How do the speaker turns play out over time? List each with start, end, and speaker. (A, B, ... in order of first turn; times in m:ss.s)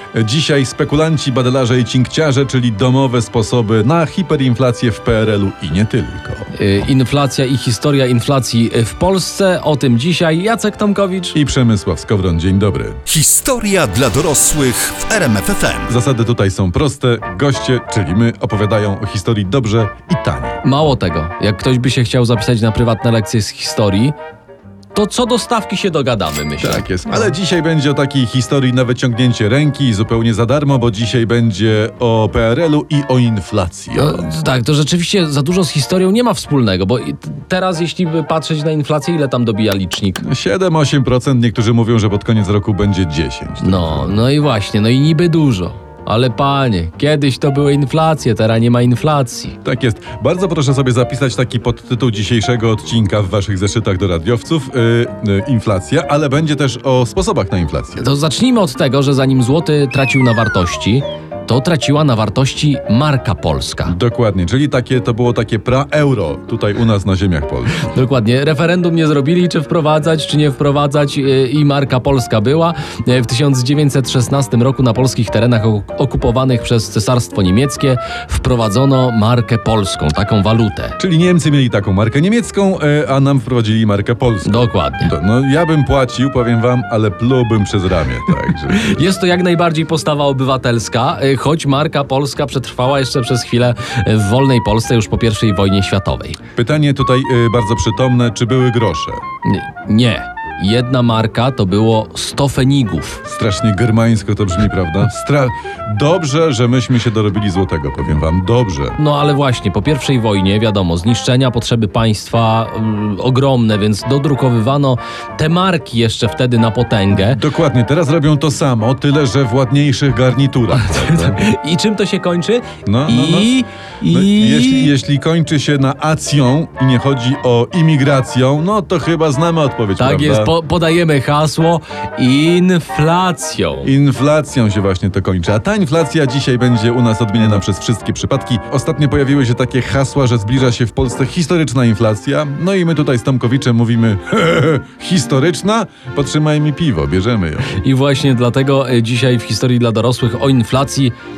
0:00.1-0:06.5 A
0:06.6-0:11.4 B
0:11.3-0:13.0 A
0:13.1-0:15.9 C
0:15.9-0:20.6 A
0:20.6-0:24.1 B
0:24.9-0:27.2 B
0:26.6-0:34.3 A
0:33.9-0:40.2 B
0:40.2-0:44.2 A
0:43.6-0:49.6 B
0:49.6-0:58.1 A
0:58.0-1:04.0 B
1:03.8-1:07.7 A
1:07.7-1:21.0 B
1:21.0-1:29.0 A
1:24.4-1:25.1 B
1:28.7-1:36.4 B
1:36.6-1:39.2 A
1:39.4-1:43.2 B
1:43.2-1:49.0 A
1:49.0-1:57.4 B
1:57.1-2:01.5 A
2:00.7-2:04.9 B
2:02.8-2:03.5 A
2:04.1-2:10.5 A
2:10.0-2:13.9 B
2:13.8-2:27.8 A
2:27.7-2:31.1 B